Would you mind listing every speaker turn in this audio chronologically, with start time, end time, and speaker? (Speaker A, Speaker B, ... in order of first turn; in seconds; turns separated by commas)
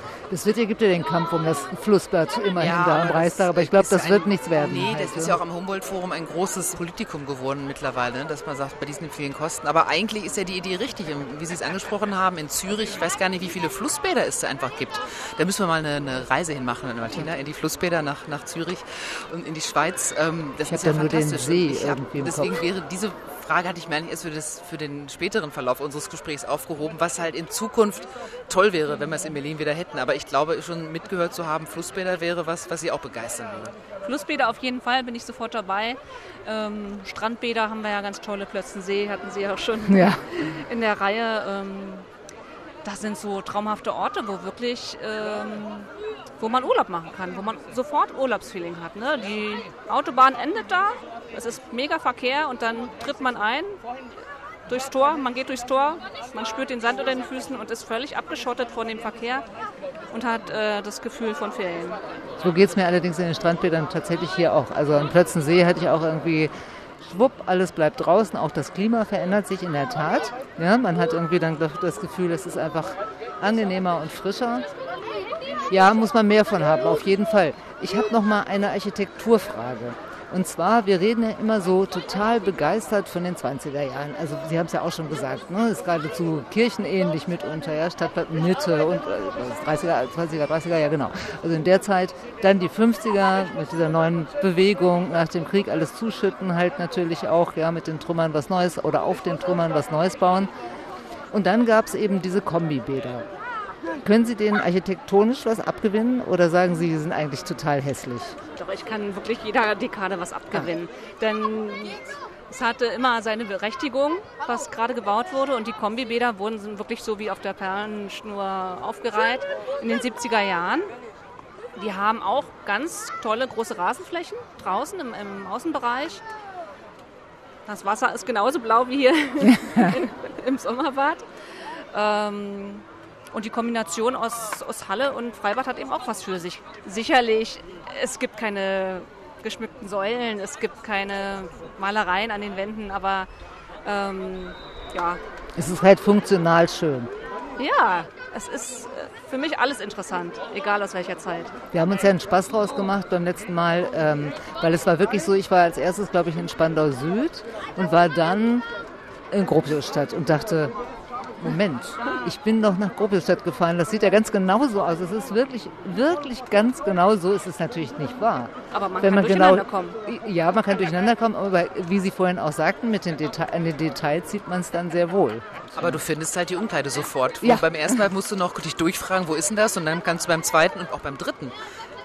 Speaker A: 0.3-5.4, Speaker B: 2.6-33.8, Speaker A: 20.7-22.6, Speaker C: 34.0-42.1, Speaker A: 39.9-40.2, Speaker C: 42.8-53.8, Speaker C: 54.7-59.5, Speaker C: 60.1-62.0, Speaker A: 62.4-74.7, Speaker A: 75.7-100.5, Speaker A: 101.3-103.3, Speaker A: 104.0-108.4, Speaker C: 108.6-120.9, Speaker C: 121.8-126.2, Speaker C: 127.7-143.3, Speaker A: 129.4-130.1, Speaker C: 143.8-145.2, Speaker A: 145.6-147.1, Speaker C: 147.6-151.6, Speaker A: 151.7-158.7, Speaker A: 159.3-160.8, Speaker A: 161.4-176.0, Speaker C: 168.7-170.0, Speaker B: 175.8-181.6, Speaker A: 177.4-178.0